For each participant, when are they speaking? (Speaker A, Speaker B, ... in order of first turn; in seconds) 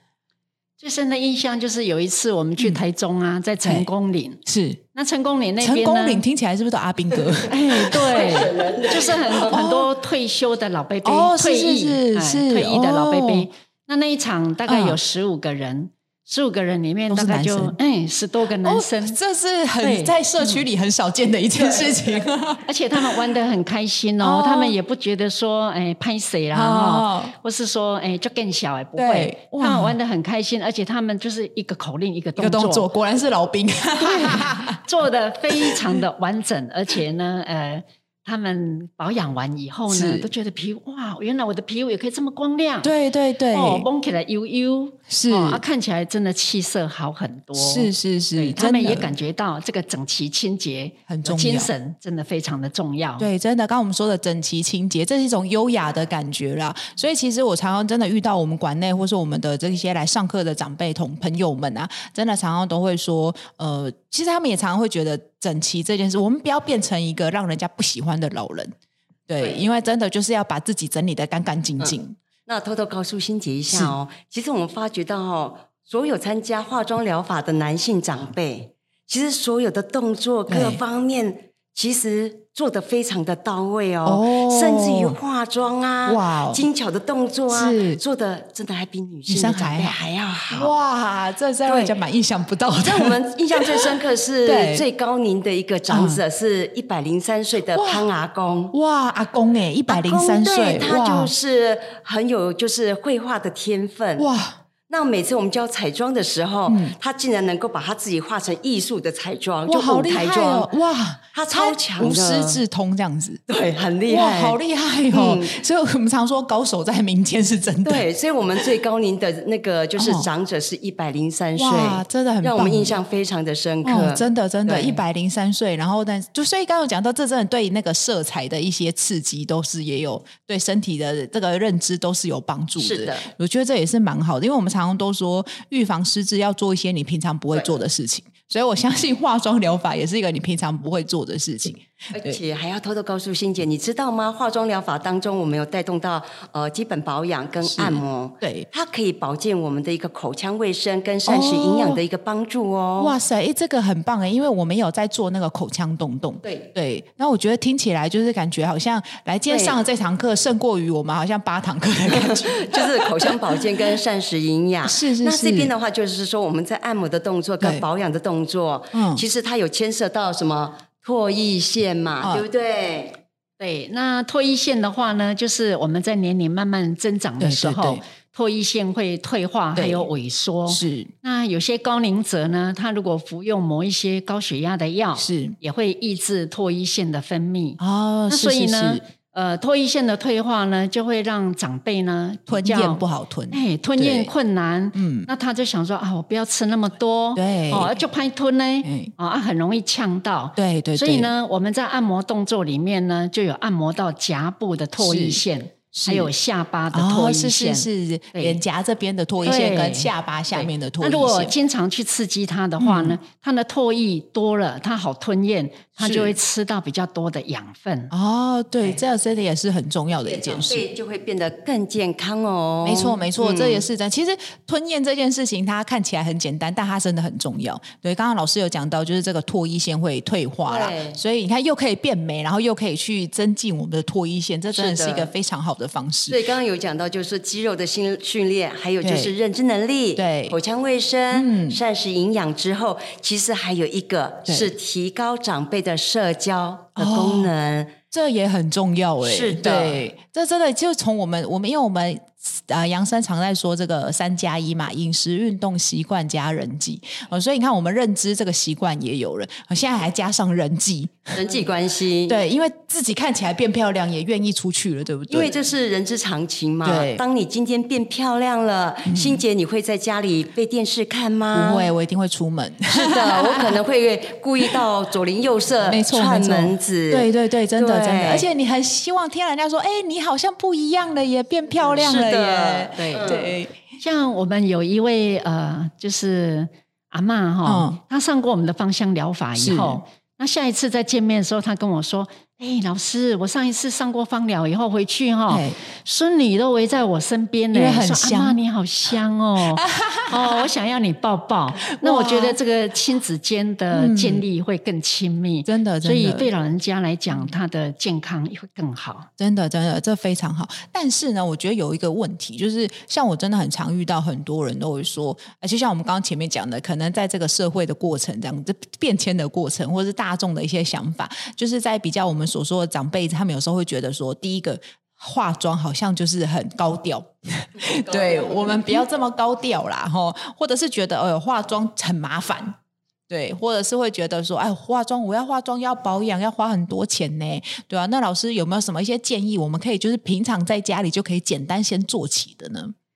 Speaker A: 0.8-4.4, 4.9-6.2, 7.5-19.2, 19.8-20.6, 22.6-32.9, 34.0-42.9, 43.5-53.3, 173.6-208.6, 209.4-218.1, 284.0-309.3
Speaker B: 2.6-2.8, 3.6-3.9, 4.5-4.8, 5.6-8.3, 9.5-9.9, 11.0-13.5, 14.7-15.0, 17.1-17.8, 18.6-23.2, 24.2-24.8, 26.5-27.3, 29.0-30.0, 32.4-34.8, 35.5-35.8, 39.9-40.3, 42.8-43.9, 45.1-45.6, 47.5-49.1, 51.1-51.7, 53.2-68.7, 69.3-72.2, 73.7-73.9, 80.5-80.8, 84.0-85.2, 86.0-86.7, 87.5-88.0, 89.3-89.9, 90.5-94.8, 95.9-96.2, 97.7-98.1, 98.7-101.3, 104.2-104.6, 106.7-106.9, 109.7-113.4, 114.1-118.0, 120.0-120.3, 121.5-123.0, 123.8-142.4, 147.6-148.7, 151.2-152.0, 153.0-163.3, 164.8-165.7, 168.9-169.2, 172.2-172.5, 177.4-178.0, 179.7-180.1, 180.7-181.1, 185.2-185.6, 187.8-189.0, 192.5-194.3, 194.9-195.3, 197.3-197.9, 198.8-199.1, 200.6-201.3, 205.0-206.3, 206.9-211.5, 212.8-213.2, 216.0-216.4, 218.1-220.8, 222.8-236.4, 239.0-239.3, 240.2-240.6, 241.3-241.8, 247.0-247.5, 248.1-261.4, 262.3-265.5, 266.8-267.2, 269.1-269.4, 271.5-273.8, 275.8-283.7, 287.6-288.0, 289.5-290.0, 295.5-295.8, 297.7-298.6, 299.8-300.7, 301.9-302.6, 303.9-304.4, 305.6-306.5, 307.3-307.6, 309.4-332.7, 333.3-342.9
Speaker C: 8.0-9.5, 21.6-22.1, 69.4-69.7, 71.8-90.7, 91.6-92.0, 92.8-98.7, 99.9-104.2, 104.9-110.7, 111.3-112.6, 113.5-115.6, 117.8-125.0, 132.8-133.3, 137.5-137.8, 142.1-153.2, 156.4-156.7, 159.5-159.8, 162.1-173.2, 220.2-223.9, 230.6-231.2, 234.7-235.3, 236.3-247.9, 249.2-250.0, 261.3-262.4, 265.3-271.9, 272.9-278.5, 281.9-283.6, 327.8-329.0